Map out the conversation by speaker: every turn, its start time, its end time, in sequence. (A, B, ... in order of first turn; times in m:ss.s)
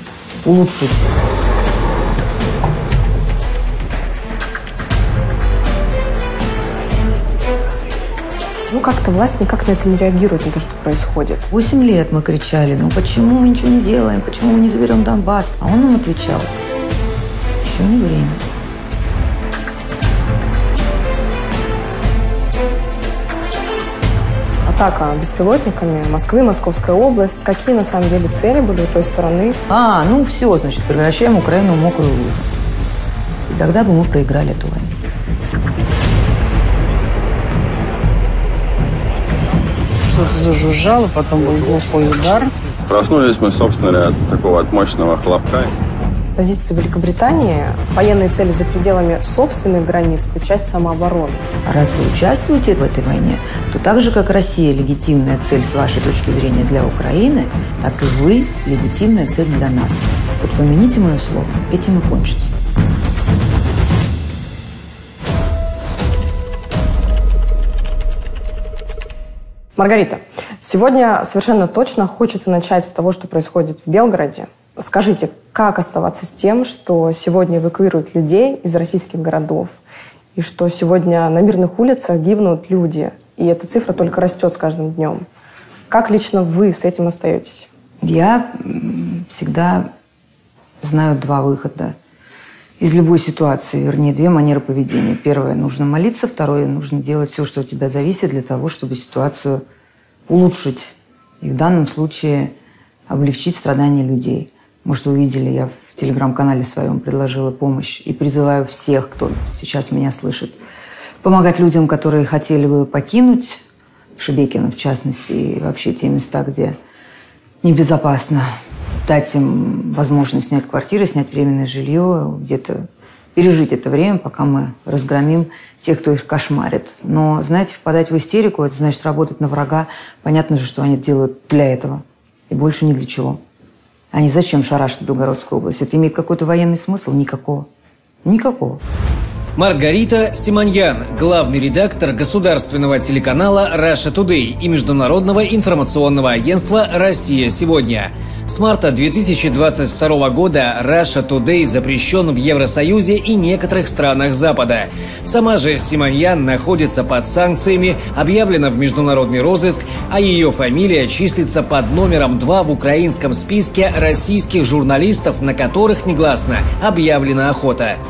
0:00.4-0:01.1 A
0:08.7-0:11.4 B
0:11.5-0:16.6 A
0:17.6-0:18.4 A
0:24.7-0:29.6 B
0:29.7-0:32.5 A
0:33.5-0:35.0 A
0:40.0-0:42.5 C
0:42.9-0:45.7 D
0:46.4-0:51.5 B
0:51.6-1:02.6 A
1:09.8-1:19.8 B
1:20.4-1:25.2 B
1:25.9-1:27.7 B
1:28.0-1:29.9 A
1:30.8-1:32.0 A
1:32.8-1:39.6 A
1:40.3-1:42.5 A
1:43.1-1:50.6 A
1:51.2-1:53.6 A
1:54.2-1:56.8 A
1:57.6-1:58.5 A
1:59.0-2:13.4 A
2:14.1-2:17.7 A
2:18.2-2:18.8 A
2:19.6-2:48.0 E